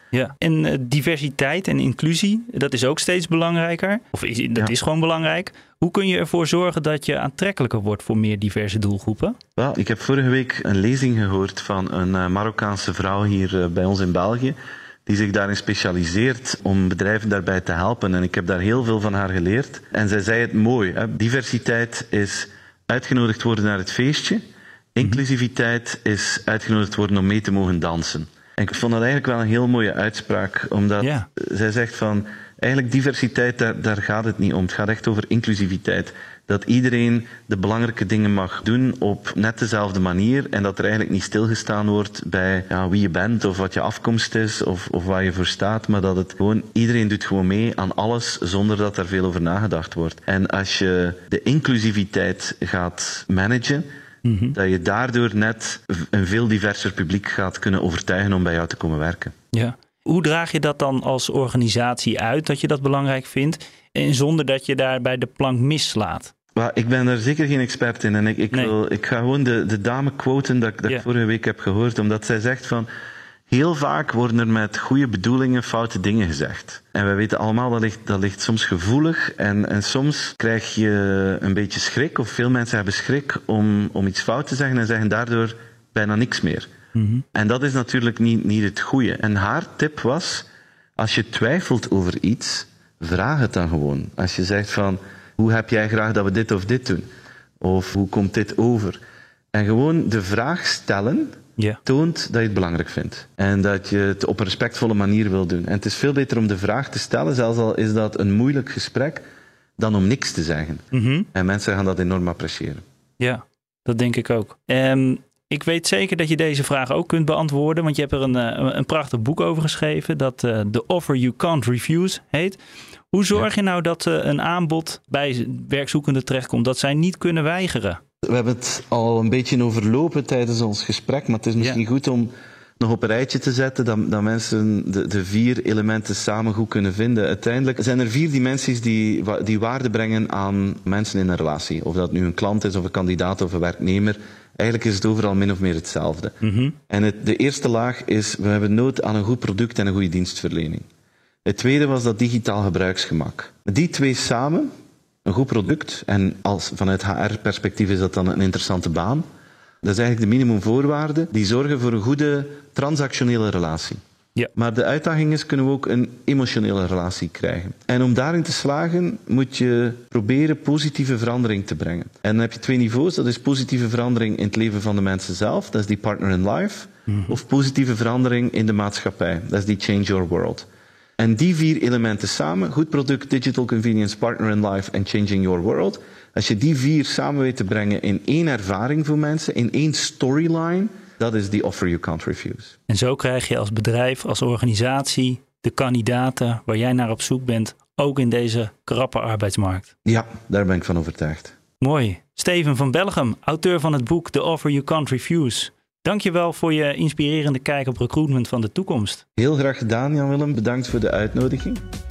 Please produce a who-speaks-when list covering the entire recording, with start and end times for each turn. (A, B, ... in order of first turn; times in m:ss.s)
0:00.1-0:09.4 A
0:09.6-0:24.4 B
0:24.9-0:53.9 B
0:31.0-0:31.3 A
0:54.2-0:54.6 A
0:54.5-0:59.3 B
0:59.5-1:06.3 A
1:06.5-1:12.9 B
1:13.5-1:26.7 B
1:26.9-1:27.2 A
1:27.3-1:30.4 B
1:31.0-1:37.0 B
1:37.6-1:39.0 B
1:39.5-1:49.2 B
1:49.8-1:52.8 B
1:50.9-1:51.3 A
1:53.2-2:02.6 A
2:03.1-2:08.0 A
2:08.2-2:26.4 B
2:26.4-2:26.7 A
2:26.9-2:30.8 B
2:31.4-2:34.7 B
2:35.2-2:39.2 B
2:39.8-2:44.0 B
2:44.5-3:00.6 B
2:57.1-2:57.3 A
3:01.2-3:12.8 B
3:12.9-3:19.9 A
3:20.0-3:21.5 B
3:21.8-3:29.2 A
3:29.4-3:31.8 B